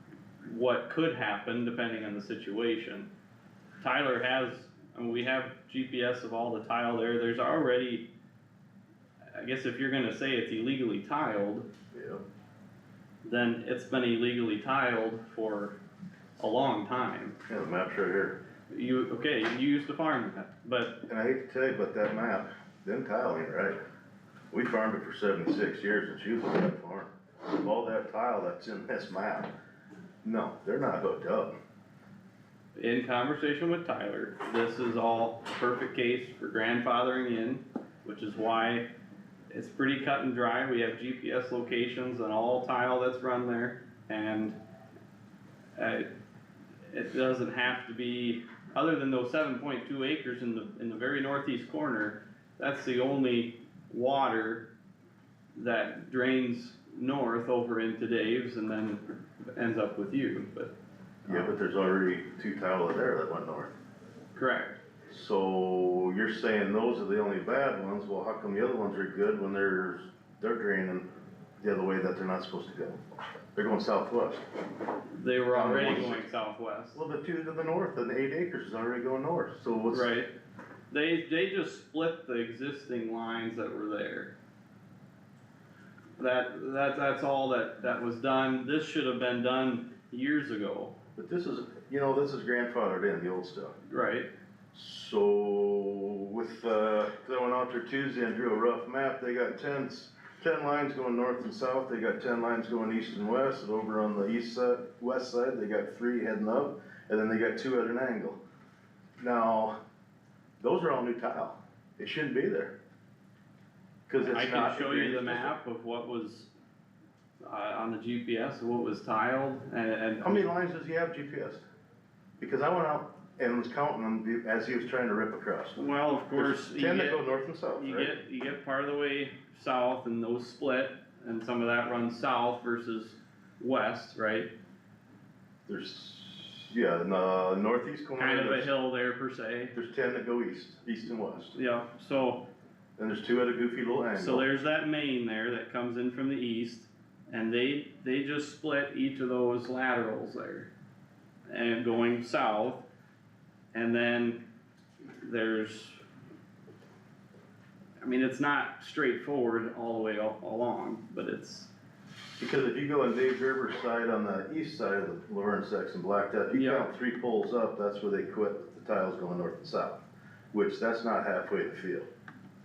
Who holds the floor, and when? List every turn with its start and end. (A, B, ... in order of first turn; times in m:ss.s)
0:00.4-0:03.1 A
0:03.8-0:08.1 A
0:09.3-0:11.7 A
0:11.9-0:12.2 B
0:13.2-0:15.8 A
0:16.4-0:17.4 A
0:17.5-0:18.4 B
0:18.7-0:21.0 A
0:21.1-0:23.8 B
0:24.5-0:29.5 B
0:30.2-0:31.5 B
0:32.8-0:38.9 A
0:39.5-0:44.6 A
0:45.8-0:46.1 A
0:46.9-0:54.7 A
0:55.6-0:59.0 A
0:59.6-1:00.7 A
1:01.3-1:03.7 B
1:04.4-1:04.8 A
1:05.1-1:11.1 B
1:11.6-1:13.0 B
1:13.6-1:14.4 B
1:15.1-1:17.0 A
1:15.5-1:16.3 B
1:16.9-1:20.1 B
1:19.9-1:20.3 A
1:20.9-1:24.3 A
1:26.2-1:31.0 A
1:31.2-1:33.8 B
1:33.9-1:34.3 A
1:34.7-1:48.4 B
1:49.2-1:49.8 B
1:50.6-1:52.7 B
1:54.1-1:55.6 B
1:54.2-1:56.5 A
1:57.4-2:00.4 A
2:00.2-2:01.7 B
2:02.4-2:08.2 B
2:05.8-2:07.2 A
2:07.8-2:14.5 A
2:15.7-2:18.7 B
2:18.2-2:19.8 A
2:19.8-2:21.6 B
2:21.6-2:22.4 A
2:23.0-2:24.5 B
2:24.2-2:30.7 A
2:31.5-2:32.8 A
2:33.7-2:34.4 A
2:35.2-2:36.0 A
2:38.0-2:41.7 A
2:42.4-2:50.0 B
2:46.5-2:46.9 A
2:50.5-2:52.1 B